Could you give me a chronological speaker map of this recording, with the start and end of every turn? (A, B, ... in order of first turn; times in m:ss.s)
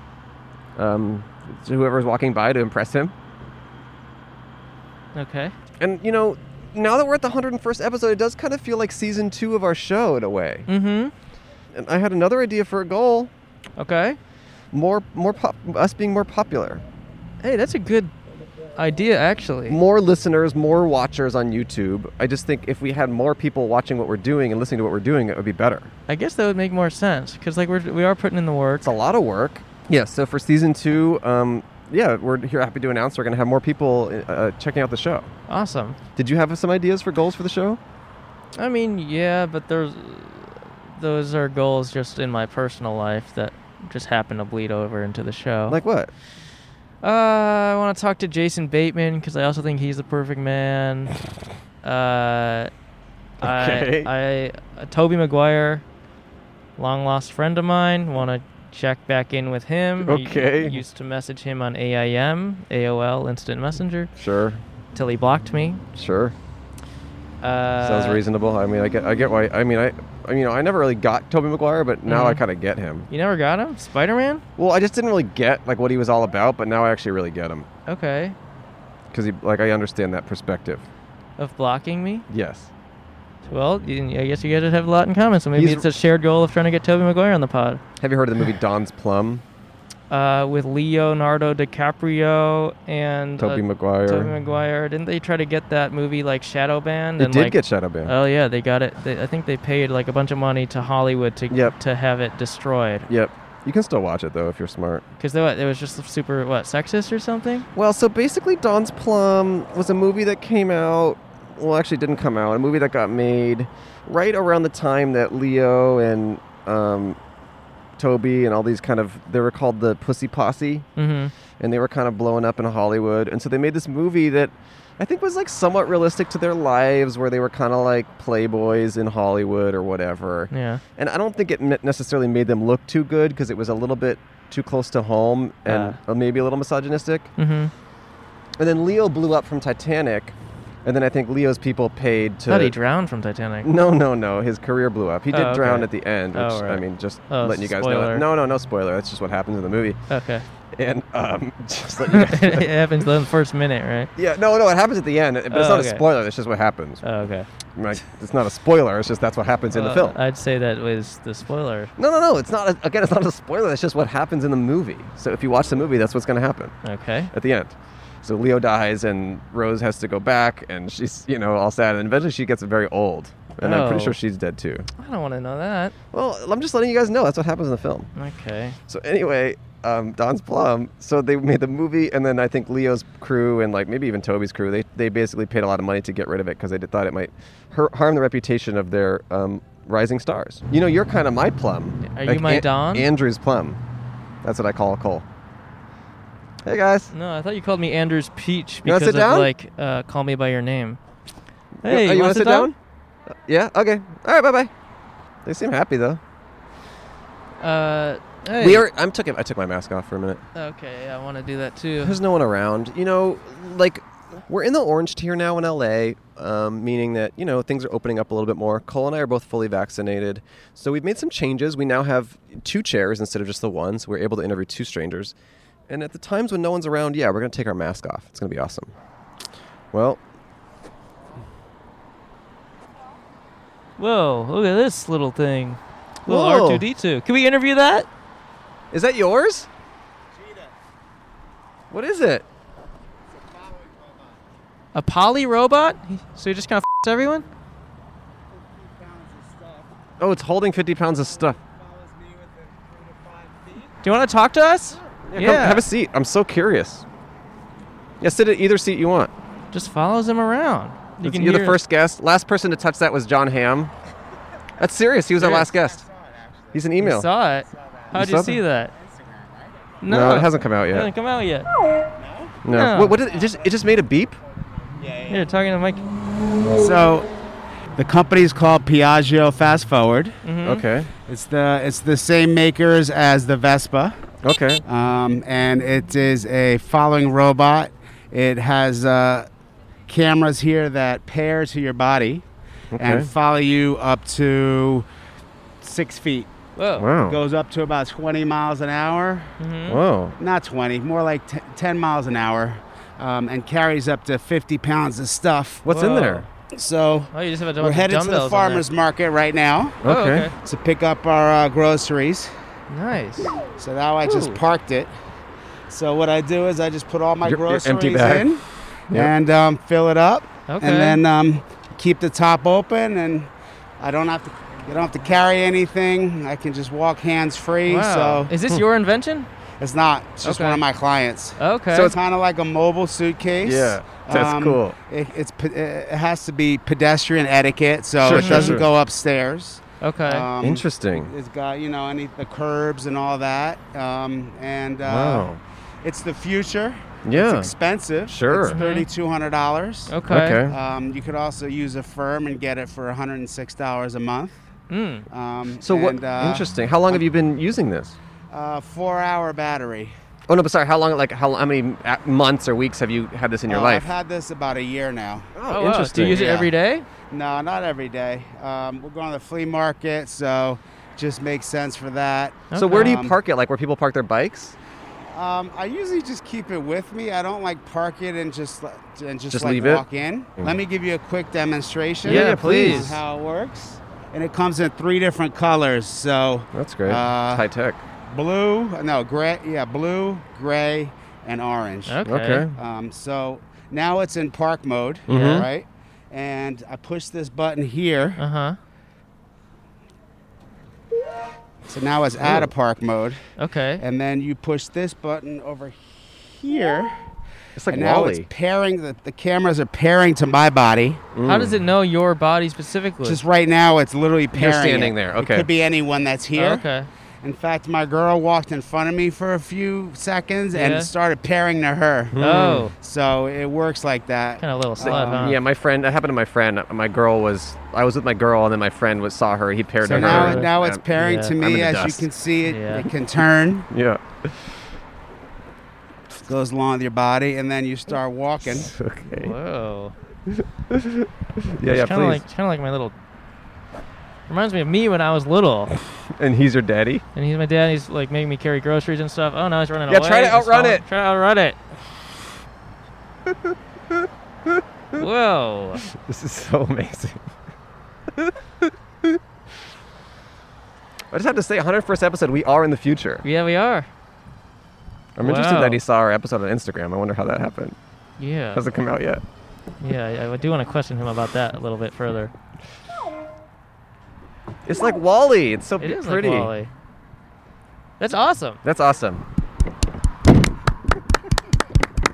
0:00.8-0:03.1 A
0:05.2-0:05.5 B
0:05.8-0:10.7 A
0:10.7-0:11.1 B
0:11.7-0:13.3 A
0:13.8-0:14.2 B
0:14.7-0:16.8 A
0:17.4-0:18.1 B
0:18.8-0:19.8 B
0:19.7-0:25.9 A
0:26.1-0:28.9 B
0:28.8-0:35.3 A
0:35.5-0:36.0 B
0:36.2-0:37.8 A
0:38.6-0:45.8 B
0:45.7-0:46.1 A
0:47.0-0:51.1 B
0:51.8-0:52.7 B
0:53.4-0:54.1 A
0:53.4-0:55.8 B
0:56.8-1:04.1 B
1:00.0-1:00.8 A
1:04.2-1:04.6 A
1:04.9-1:05.8 B
1:06.0-1:06.4 A
1:07.4-1:08.2 B
1:07.8-1:13.1 A
1:12.1-1:12.4 B
1:13.1-1:14.4 B
1:14.6-1:17.7 A
1:17.9-1:18.4 B
1:19.1-1:20.9 A
1:21.4-1:22.3 B
1:22.3-1:22.7 A
1:23.5-1:27.8 B
1:25.6-1:25.9 A
1:28.0-1:29.4 A
1:30.1-1:43.1 B
1:33.4-1:34.3 A
1:37.2-1:38.1 A
1:41.5-1:41.8 A
1:43.1-1:45.0 A
1:45.2-1:47.7 B
1:47.8-1:57.2 A
1:58.0-2:00.9 A
2:01.0-2:01.3 B
2:01.6-2:17.3 A
2:10.5-2:10.8 B
2:15.7-2:16.0 B
2:17.4-2:17.7 B
2:18.6-2:22.8 A
2:22.5-2:23.7 B
2:23.6-2:30.0 A
2:25.3-2:28.3 B
2:30.1-2:30.5 B
2:30.7-2:32.7 A
2:32.1-2:34.1 B
2:34.2-2:37.0 A
2:35.5-2:36.0 B
2:37.0-2:37.5 B
2:37.8-2:40.2 A
2:39.7-2:41.9 B
2:42.0-2:46.8 A
2:46.8-2:47.3 B
2:47.3-2:54.9 A
2:53.6-2:54.2 B
2:55.0-2:55.9 B
2:56.1-2:58.1 A
2:58.2-2:58.8 B
2:58.9-3:13.8 A
3:12.0-3:13.1 B
3:14.4-3:15.2 A
3:16.6-3:17.1 A
3:17.1-3:21.0 B
3:18.8-3:19.5 A
3:21.8-3:22.8 A
3:21.8-3:22.7 B
3:23.5-3:24.7 A
3:25.4-3:26.2 A
3:27.6-3:28.9 B
3:28.6-3:30.4 A
3:30.6-3:32.2 B
3:32.0-3:45.4 A
3:45.9-3:48.9 A
3:49.9-3:50.2 A
3:54.0-3:58.1 B
3:56.3-3:56.8 A
3:58.9-3:59.7 A
4:00.4-4:00.7 C
4:01.9-4:02.4 A
4:03.5-4:04.4 C
4:05.0-4:07.5 B
4:08.7-4:09.9 C
4:10.2-4:11.6 A
4:11.6-4:13.9 C
4:14.0-4:15.8 B
4:15.3-4:17.0 A
4:18.2-4:19.3 A
4:19.7-4:21.8 B
4:21.2-4:23.9 A
4:24.8-4:26.0 A
4:25.4-4:26.8 C
4:26.7-4:27.3 A
4:27.0-4:28.9 B
4:27.7-4:28.1 C
4:28.1-4:28.6 A
4:28.9-4:29.7 C
4:30.0-4:31.7 B
4:30.1-4:31.1 A
4:32.2-4:32.6 C
4:32.6-4:34.4 A
4:32.7-4:33.2 B
4:35.0-4:35.4 C
4:35.3-4:36.0 B
4:36.7-4:37.3 C
4:38.0-4:40.4 C
4:40.4-4:40.8 B
4:40.6-4:41.1 A
4:41.3-4:44.2 C
4:44.4-4:44.8 A
4:44.9-4:49.5 C
4:50.1-4:52.4 C
4:52.9-4:53.3 A
4:53.0-4:55.1 C
4:55.8-4:56.5 C
4:56.8-4:57.1 B
4:57.0-4:57.4 A
4:57.2-4:59.5 C
4:59.6-5:00.0 B
4:59.9-5:00.4 A
5:00.4-5:05.8 C
5:05.8-5:06.5 A
5:05.9-5:06.5 B
5:06.7-5:10.0 C
5:07.3-5:08.8 B
5:10.0-5:10.5 A
5:10.0-5:10.5 B
5:10.6-5:12.5 C
5:12.9-5:13.5 B
5:13.8-5:15.1 C
5:14.2-5:14.6 B
5:15.9-5:28.5 C
5:17.4-5:18.5 A
5:20.7-5:21.2 B
5:27.9-5:29.5 B
5:29.8-5:45.5 C
5:30.4-5:30.8 B
5:31.6-5:32.1 B
5:33.6-5:35.0 A
5:38.2-5:38.9 A
5:38.3-5:38.8 B
5:40.0-5:40.5 B
5:40.6-5:41.3 A
5:45.0-5:45.6 A
5:46.0-5:54.6 C
5:47.2-5:47.7 A
5:48.3-5:48.8 A
5:48.7-5:49.1 B
5:50.1-5:50.6 B
5:50.3-5:50.8 A
5:54.9-5:55.3 B
5:55.3-5:57.2 C
5:55.8-5:58.2 A
5:58.5-6:00.2 C
6:00.5-6:04.1 A
6:03.7-6:05.5 C
6:05.6-6:06.5 A
6:05.7-6:07.1 B
6:06.2-6:06.7 C
6:07.3-6:13.4 C
6:12.7-6:13.2 B
6:12.8-6:14.8 A
6:15.3-6:27.7 C
6:19.5-6:20.0 A
6:22.2-6:23.2 A
6:22.2-6:23.1 B
6:26.7-6:28.0 A
6:28.3-6:32.2 C
6:32.1-6:32.7 B
6:32.3-6:32.7 A
6:32.7-6:38.4 C
6:35.3-6:35.7 A
6:35.3-6:35.6 B
6:38.4-6:38.8 B
6:41.9-6:43.4 C
6:42.4-6:42.7 A
6:43.6-6:44.0 B
6:44.0-6:47.2 C
6:47.8-6:48.5 A
6:47.9-6:51.2 C
6:51.3-6:51.8 A
6:51.5-6:53.4 B
6:53.2-6:56.8 C
6:54.6-6:55.7 A
6:56.6-6:57.1 B
6:57.4-7:05.6 C
7:00.7-7:01.1 B
7:02.3-7:02.9 A
7:02.4-7:02.9 B
7:04.6-7:05.6 B
7:05.0-7:11.0 A
7:10.0-7:13.9 C
7:10.1-7:11.5 B
7:11.6-7:12.3 A
7:12.7-7:13.1 B
7:13.9-7:14.8 A
7:16.4-7:18.9 C
7:18.7-7:19.6 A
7:19.4-7:20.1 B
7:20.5-7:22.4 A
7:21.8-7:23.2 B
7:24.5-7:25.9 B
7:26.3-7:27.2 A
7:27.4-7:31.8 B
7:30.1-7:31.0 A
7:33.5-7:35.3 A
7:35.2-7:36.0 B
7:36.0-7:37.5 A
7:38.3-7:39.4 A
7:41.3-7:43.4 A
7:43.4-7:44.1 B
7:45.4-7:48.0 A
7:45.4-7:46.0 B
7:48.4-7:48.8 B
7:48.7-7:49.4 A
7:50.0-7:52.5 B
7:54.9-7:56.7 A
7:56.0-7:56.9 B
7:58.2-7:58.8 B
7:58.8-7:59.4 A